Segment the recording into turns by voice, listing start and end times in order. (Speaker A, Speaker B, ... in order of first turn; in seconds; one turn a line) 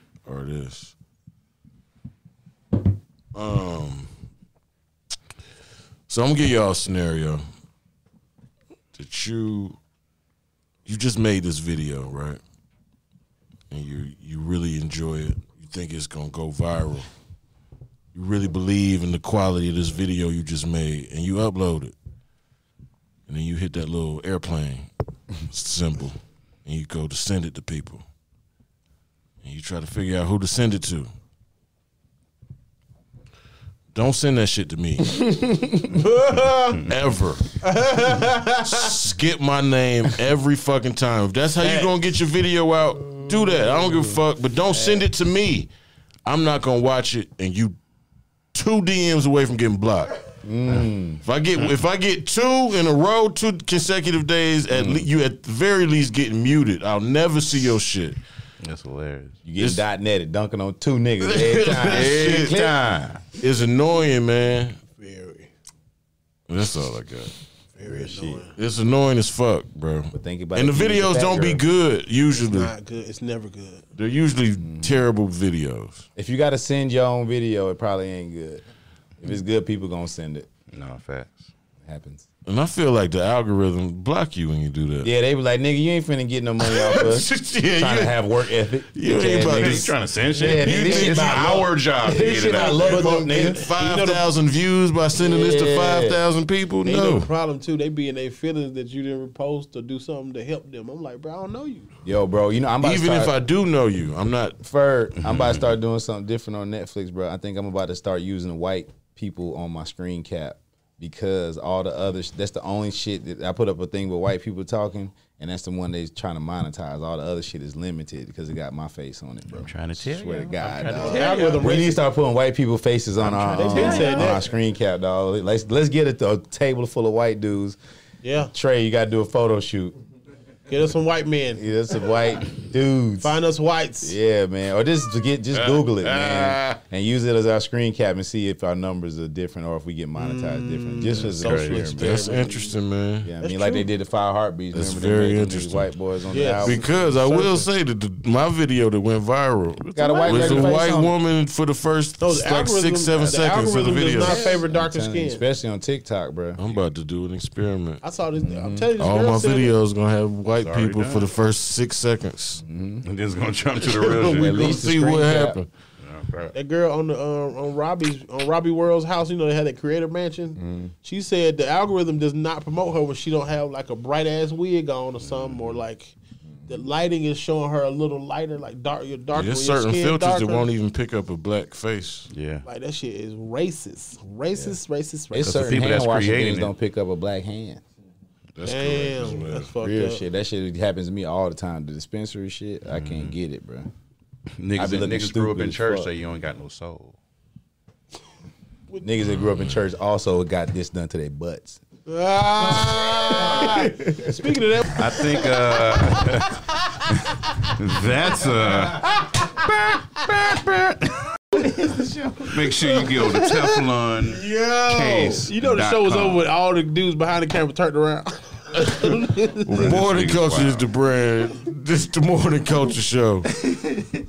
Speaker A: 0.2-0.9
Speaker A: 3.3-4.1
Speaker A: 6.1-7.4
Speaker A: 8.9-9.8
Speaker A: 10.8-12.4
Speaker A: 13.7-17.1
Speaker A: 18.1-21.9
Speaker A: 23.3-24.9
Speaker A: 25.5-28.0
Speaker A: 29.4-31.1
Speaker A: 33.9-35.2
Speaker B: 35.2-35.9
Speaker C: 35.9-36.8
Speaker A: 36.8-37.5
Speaker C: 37.6-38.9
Speaker A: 38.6-45.7
Speaker C: 41.6-41.9
Speaker B: 44.7-45.0
Speaker A: 46.2-47.8
Speaker A: 48.5-50.2
Speaker B: 50.4-51.2
Speaker A: 51.2-58.2
Speaker B: 54.7-55.0
Speaker D: 58.6-59.4
Speaker B: 59.4-62.8
Speaker A: 61.2-62.6
Speaker D: 61.8-63.2
Speaker A: 63.4-64.8
Speaker C: 64.9-65.5
Speaker A: 66.5-67.3
Speaker C: 67.7-68.5
Speaker B: 67.8-68.4
Speaker A: 68.5-72.7
Speaker B: 70.1-71.6
Speaker C: 72.3-73.9
Speaker A: 73.9-76.0
Speaker B: 74.6-75.0
Speaker B: 76.2-78.6
Speaker B: 79.2-80.5
Speaker D: 80.7-81.5
Speaker B: 81.8-82.3
Speaker A: 82.5-85.1
Speaker B: 85.0-93.6
Speaker A: 86.6-88.2
Speaker A: 88.9-91.5
Speaker D: 89.3-93.2
Speaker A: 92.1-97.3
Speaker C: 92.4-94.3
Speaker B: 95.1-96.2
Speaker C: 96.8-101.9
Speaker B: 102.0-103.3
Speaker A: 102.8-104.6
Speaker B: 104.6-127.8
Speaker D: 105.2-105.7
Speaker D: 119.5-121.9
Speaker C: 121.0-122.0
Speaker D: 123.2-124.4
Speaker C: 123.5-124.5
Speaker C: 128.2-128.5
Speaker B: 128.5-129.9
Speaker C: 130.7-131.6
Speaker B: 131.6-133.4
Speaker C: 133.2-134.2
Speaker B: 134.0-142.2
Speaker D: 135.5-136.8
Speaker C: 140.2-142.8
Speaker D: 141.3-141.8
Speaker A: 141.8-143.3
Speaker B: 143.2-146.9
Speaker C: 143.4-143.9
Speaker A: 144.7-145.9
Speaker C: 146.3-147.7
Speaker A: 146.6-154.6
Speaker D: 149.8-150.4
Speaker B: 149.9-151.1
Speaker C: 150.1-150.8
Speaker C: 152.2-155.4
Speaker B: 153.2-156.6
Speaker A: 156.6-158.0
Speaker C: 158.0-159.8
Speaker B: 158.4-158.9
Speaker A: 159.0-162.6
Speaker D: 160.6-161.3
Speaker B: 162.6-163.0
Speaker D: 163.0-164.9
Speaker C: 163.8-164.6
Speaker B: 164.3-165.6
Speaker A: 164.5-165.7
Speaker D: 166.0-166.5
Speaker C: 166.5-176.1
Speaker B: 170.6-170.9
Speaker D: 175.3-175.7
Speaker C: 176.7-180.7
Speaker A: 179.3-182.3
Speaker D: 182.3-182.7
Speaker C: 182.6-185.8
Speaker B: 185.3-187.8
Speaker D: 185.4-186.7
Speaker A: 188.6-189.7
Speaker C: 188.6-190.2
Speaker B: 189.8-193.9
Speaker D: 192.9-193.3
Speaker D: 194.6-197.2
Speaker B: 194.8-196.1
Speaker B: 199.0-201.8
Speaker A: 199.4-199.8
Speaker C: 202.1-207.7
Speaker B: 202.6-204.4
Speaker D: 204.9-206.7
Speaker D: 207.2-211.1
Speaker C: 208.9-209.6
Speaker B: 211.6-212.7
Speaker D: 212.4-216.4
Speaker C: 212.7-213.7
Speaker C: 214.3-219.9
Speaker A: 219.7-223.5
Speaker D: 219.7-220.9
Speaker B: 223.6-224.1